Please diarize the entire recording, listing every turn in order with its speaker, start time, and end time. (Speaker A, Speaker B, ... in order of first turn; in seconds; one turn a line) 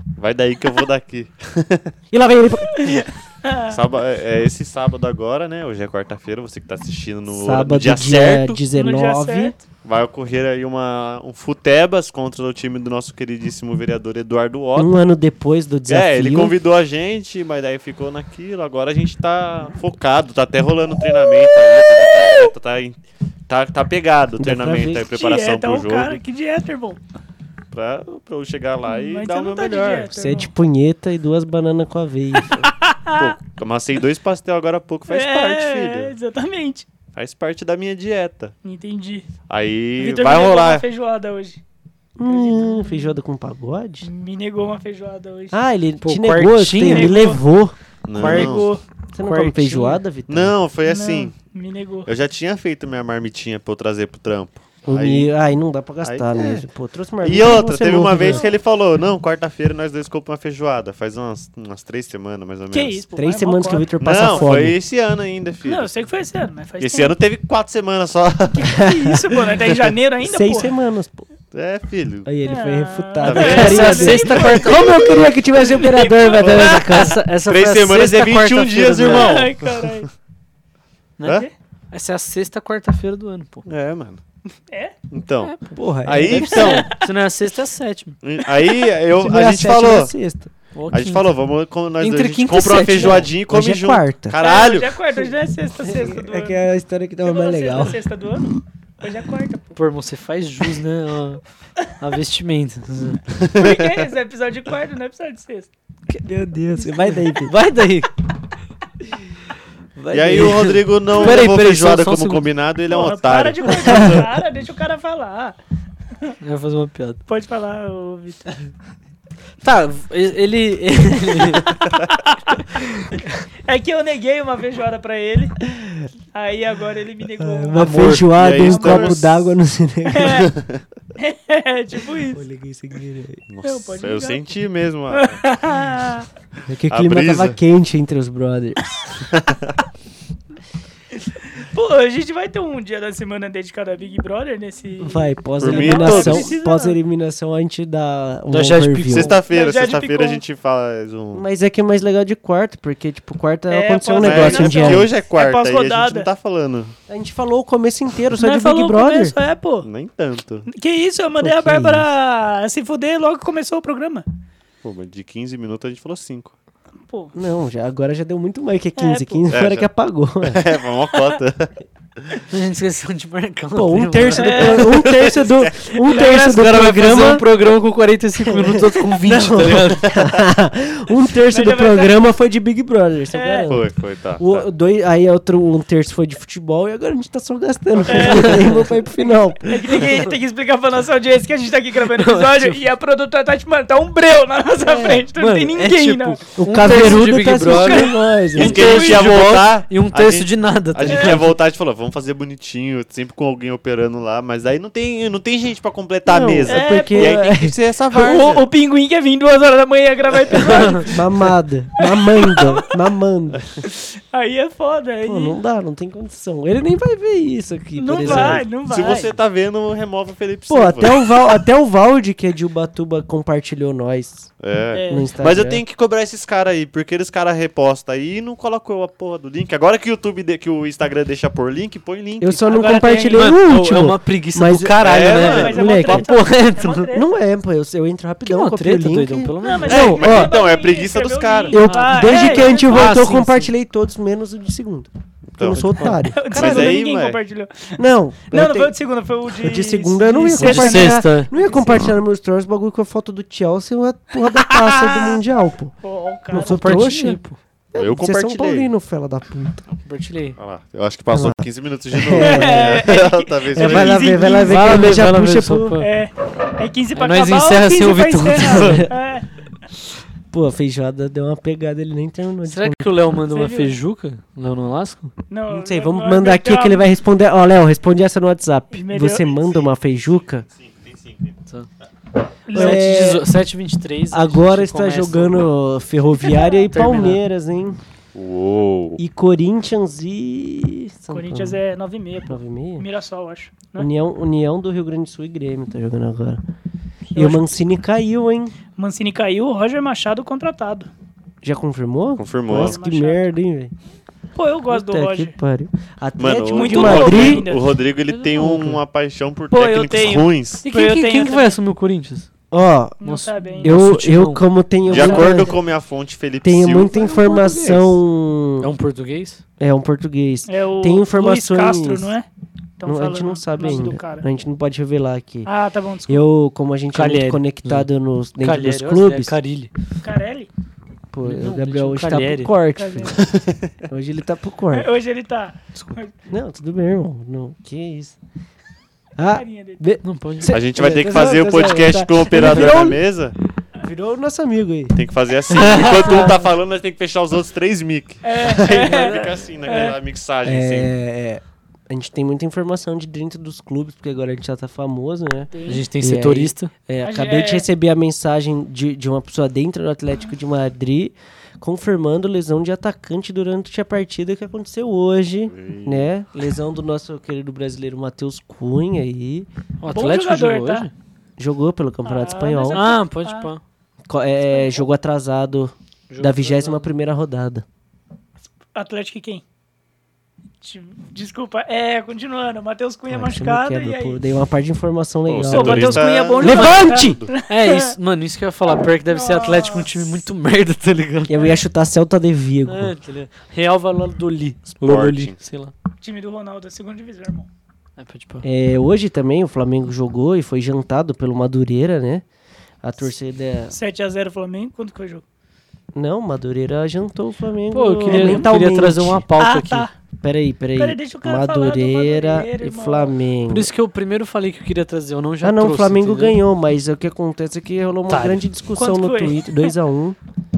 Speaker A: 0.2-1.9
Speaker B: 2.1-3.0
Speaker C: 2.7-3.8
Speaker A: 3.7-8.6
Speaker B: 7.3-9.6
Speaker C: 8.7-9.6
Speaker A: 9.8-14.9
Speaker B: 14.8-16.5
Speaker A: 15.9-26.2
Speaker B: 24.4-25.1
Speaker C: 25.1-27.0
Speaker A: 27.7-30.1
Speaker C: 28.9-30.5
Speaker B: 30.1-32.6
Speaker C: 32.4-33.4
Speaker A: 32.5-36.1
Speaker C: 35.1-36.9
Speaker A: 37.1-38.5
Speaker C: 38.6-39.3
Speaker A: 39.5-40.9
Speaker C: 40.0-41.6
Speaker B: 42.2-44.1
Speaker C: 42.3-43.2
Speaker C: 44.0-45.6
Speaker B: 45.5-47.8
Speaker D: 46.0-47.3
Speaker C: 46.8-47.4
Speaker A: 48.0-48.7
Speaker C: 48.2-48.8
Speaker D: 48.2-50.0
Speaker B: 49.1-50.5
Speaker A: 50.3-51.3
Speaker C: 50.9-52.1
Speaker A: 52.1-55.3
Speaker B: 54.9-58.5
Speaker A: 56.0-56.6
Speaker A: 57.2-63.0
Speaker C: 58.2-58.5
Speaker C: 62.7-64.5
Speaker B: 63.2-64.8
Speaker A: 64.0-65.9
Speaker C: 65.7-67.2
Speaker A: 66.8-68.8
Speaker C: 68.5-70.7
Speaker B: 68.7-69.3
Speaker B: 70.2-71.3
Speaker A: 71.5-72.3
Speaker B: 72.2-77.2
Speaker C: 72.5-75.1
Speaker A: 73.2-75.0
Speaker D: 73.4-75.0
Speaker C: 75.7-76.9
Speaker A: 76.4-80.1
Speaker D: 76.4-79.5
Speaker C: 79.0-80.1
Speaker D: 81.2-83.7
Speaker A: 83.7-84.2
Speaker C: 84.7-84.9
Speaker A: 85.1-87.0
Speaker D: 85.4-85.7
Speaker B: 85.7-86.8
Speaker D: 86.3-88.2
Speaker C: 86.4-87.0
Speaker A: 88.2-90.1
Speaker B: 89.1-90.5
Speaker D: 90.7-91.3
Speaker A: 90.9-94.9
Speaker D: 92.0-93.3
Speaker B: 93.0-94.4
Speaker C: 94.4-96.6
Speaker B: 95.8-98.0
Speaker C: 97.2-99.7
Speaker D: 99.8-101.4
Speaker D: 102.0-103.2
Speaker A: 103.3-104.1
Speaker C: 103.5-105.7
Speaker B: 106.1-107.6
Speaker D: 107.4-108.1
Speaker D: 110.0-112.5
Speaker B: 110.1-110.7
Speaker A: 110.1-114.4
Speaker C: 112.9-115.6
Speaker B: 113.8-114.2
Speaker D: 116.4-117.2
Speaker C: 117.3-118.5
Speaker D: 119.6-121.8
Speaker C: 121.7-122.6
Speaker C: 123.7-125.6
Speaker C: 126.3-129.2
Speaker B: 127.4-130.5
Speaker D: 127.8-128.4
Speaker A: 128.3-129.5
Speaker C: 130.1-130.5
Speaker A: 130.3-130.8
Speaker C: 131.2-132.4
Speaker B: 132.3-133.4
Speaker A: 133.5-135.5
Speaker C: 133.6-134.4
Speaker C: 135.1-136.3
Speaker B: 136.7-138.9
Speaker A: 136.9-137.6
Speaker A: 139.3-139.8
Speaker C: 141.6-147.0
Speaker B: 145.0-149.4
Speaker A: 145.6-146.5
Speaker D: 148.5-149.3
Speaker A: 149.1-151.4
Speaker C: 149.5-150.4
Speaker B: 151.3-155.1
Speaker C: 153.7-156.3
Speaker A: 154.2-156.9
Speaker B: 157.1-159.3
Speaker C: 158.4-159.9
Speaker A: 159.8-160.7
Speaker C: 160.7-164.2
Speaker B: 161.4-162.1
Speaker A: 164.8-166.5
Speaker C: 167.1-167.3
Speaker B: 167.3-170.6
Speaker C: 169.0-169.4
Speaker A: 169.5-169.9
Speaker A: 170.4-172.4
Speaker C: 171.1-171.4
Speaker D: 172.5-175.1
Speaker B: 173.8-177.5
Speaker C: 174.3-175.2
Speaker A: 175.2-175.7
Speaker C: 175.9-176.6
Speaker D: 176.1-180.1
Speaker B: 178.4-183.8
Speaker A: 180.1-180.4
Speaker C: 181.5-182.2
Speaker C: 183.3-183.7
Speaker A: 183.7-184.7
Speaker B: 184.4-190.1
Speaker C: 188.1-188.9
Speaker C: 189.7-197.2
Speaker D: 192.1-192.8
Speaker B: 194.8-195.3
Speaker D: 195.3-201.6
Speaker B: 196.6-198.9
Speaker C: 197.7-199.3
Speaker A: 198.6-208.7
Speaker C: 201.1-201.4
Speaker B: 206.3-207.8
Speaker C: 206.7-207.4
Speaker C: 208.1-211.3
Speaker D: 210.5-211.1
Speaker B: 210.6-213.8
Speaker C: 212.0-212.9
Speaker C: 213.9-215.6
Speaker B: 215.2-218.7
Speaker C: 218.0-219.3
Speaker A: 218.2-221.3
Speaker B: 220.7-224.5
Speaker A: 224.6-232.9
Speaker C: 224.9-225.3
Speaker B: 225.1-225.8
Speaker B: 232.4-236.3
Speaker C: 232.7-233.5
Speaker D: 232.8-237.1
Speaker A: 235.0-236.0
Speaker C: 235.2-237.3
Speaker B: 237.1-240.6
Speaker D: 238.5-240.1
Speaker C: 239.6-243.1
Speaker A: 239.9-241.8
Speaker B: 241.7-247.0
Speaker D: 241.8-243.7
Speaker A: 245.5-247.4
Speaker D: 245.7-246.2
Speaker C: 246.2-248.0
Speaker B: 248.0-248.9
Speaker C: 248.5-251.7
Speaker B: 249.5-255.9
Speaker D: 250.6-251.6
Speaker C: 254.6-255.4
Speaker C: 256.0-256.8
Speaker B: 256.5-257.4
Speaker D: 256.6-257.6
Speaker B: 257.9-259.9
Speaker A: 257.9-258.9
Speaker D: 260.1-260.6
Speaker A: 260.6-264.7
Speaker B: 261.3-266.0
Speaker C: 262.3-265.1
Speaker D: 264.6-266.1
Speaker C: 266.0-269.5
Speaker D: 267.1-269.1
Speaker B: 268.7-269.1
Speaker B: 270.5-273.1
Speaker D: 272.7-275.3
Speaker C: 273.5-273.9
Speaker C: 275.5-277.1
Speaker B: 275.7-280.7
Speaker C: 278.9-279.9
Speaker A: 280.7-281.6
Speaker C: 282.7-283.1
Speaker B: 282.7-283.5
Speaker D: 282.7-285.6
Speaker B: 284.3-288.0
Speaker C: 286.4-286.7
Speaker D: 286.9-287.4
Speaker A: 288.3-289.2
Speaker B: 289.2-291.8
Speaker C: 291.3-294.1
Speaker B: 292.5-293.1
Speaker B: 294.0-296.6
Speaker C: 297.3-297.7
Speaker B: 297.4-298.8
Speaker C: 299.0-301.1
Speaker B: 301.6-303.9
Speaker A: 302.4-303.0
Speaker C: 302.7-303.5
Speaker C: 304.6-305.5
Speaker B: 304.9-307.7
Speaker A: 306.4-310.8
Speaker C: 306.5-308.0
Speaker D: 308.3-309.0
Speaker B: 308.6-309.0
Speaker C: 309.7-311.7
Speaker D: 310.8-312.5
Speaker B: 312.7-313.2
Speaker C: 313.2-314.0
Speaker D: 313.2-315.4
Speaker B: 313.8-315.8
Speaker A: 315.1-317.2
Speaker C: 315.1-315.7
Speaker B: 316.6-318.9
Speaker D: 317.1-318.2
Speaker D: 318.8-319.6
Speaker B: 319.8-322.3
Speaker C: 320.7-322.5
Speaker C: 323.0-324.5
Speaker B: 323.1-325.7
Speaker C: 325.6-326.4
Speaker B: 326.3-329.5
Speaker D: 327.1-328.1
Speaker D: 328.6-329.9
Speaker C: 330.2-330.7
Speaker B: 331.3-333.5
Speaker D: 331.4-332.7
Speaker C: 332.9-333.4
Speaker A: 333.4-333.9
Speaker B: 334.1-335.1
Speaker C: 334.9-336.3
Speaker B: 336.5-338.4
Speaker B: 339.4-343.2
Speaker C: 339.6-340.0
Speaker D: 340.2-340.7
Speaker A: 340.7-343.6
Speaker B: 344.0-345.2
Speaker A: 345.1-351.1
Speaker B: 345.7-346.6
Speaker D: 345.8-346.4
Speaker C: 346.2-346.5
Speaker C: 348.4-350.2
Speaker B: 350.6-369.7
Speaker C: 355.7-356.1
Speaker D: 355.9-356.9
Speaker C: 357.2-357.9
Speaker A: 365.7-366.3
Speaker D: 370.0-371.1
Speaker C: 370.1-371.1
Speaker B: 371.6-373.1
Speaker C: 372.2-373.7
Speaker D: 372.9-373.8
Speaker B: 374.3-377.9
Speaker D: 376.3-377.1
Speaker C: 378.9-379.6
Speaker C: 380.8-384.4
Speaker B: 383.3-387.4
Speaker A: 385.5-387.5
Speaker C: 385.6-388.1
Speaker D: 387.7-391.8
Speaker C: 389.3-390.3
Speaker B: 391.5-393.1
Speaker D: 392.9-395.9
Speaker A: 394.9-395.6
Speaker C: 396.2-397.7
Speaker D: 398.2-398.7
Speaker B: 398.6-402.4
Speaker B: 403.0-403.9
Speaker C: 403.9-405.4
Speaker B: 406.1-409.4
Speaker D: 407.9-410.1
Speaker C: 408.2-408.7
Speaker C: 409.6-410.1
Speaker B: 410.4-413.9
Speaker C: 411.0-413.3
Speaker D: 413.7-416.6
Speaker B: 415.6-420.4
Speaker D: 418.3-418.6
Speaker C: 419.0-419.9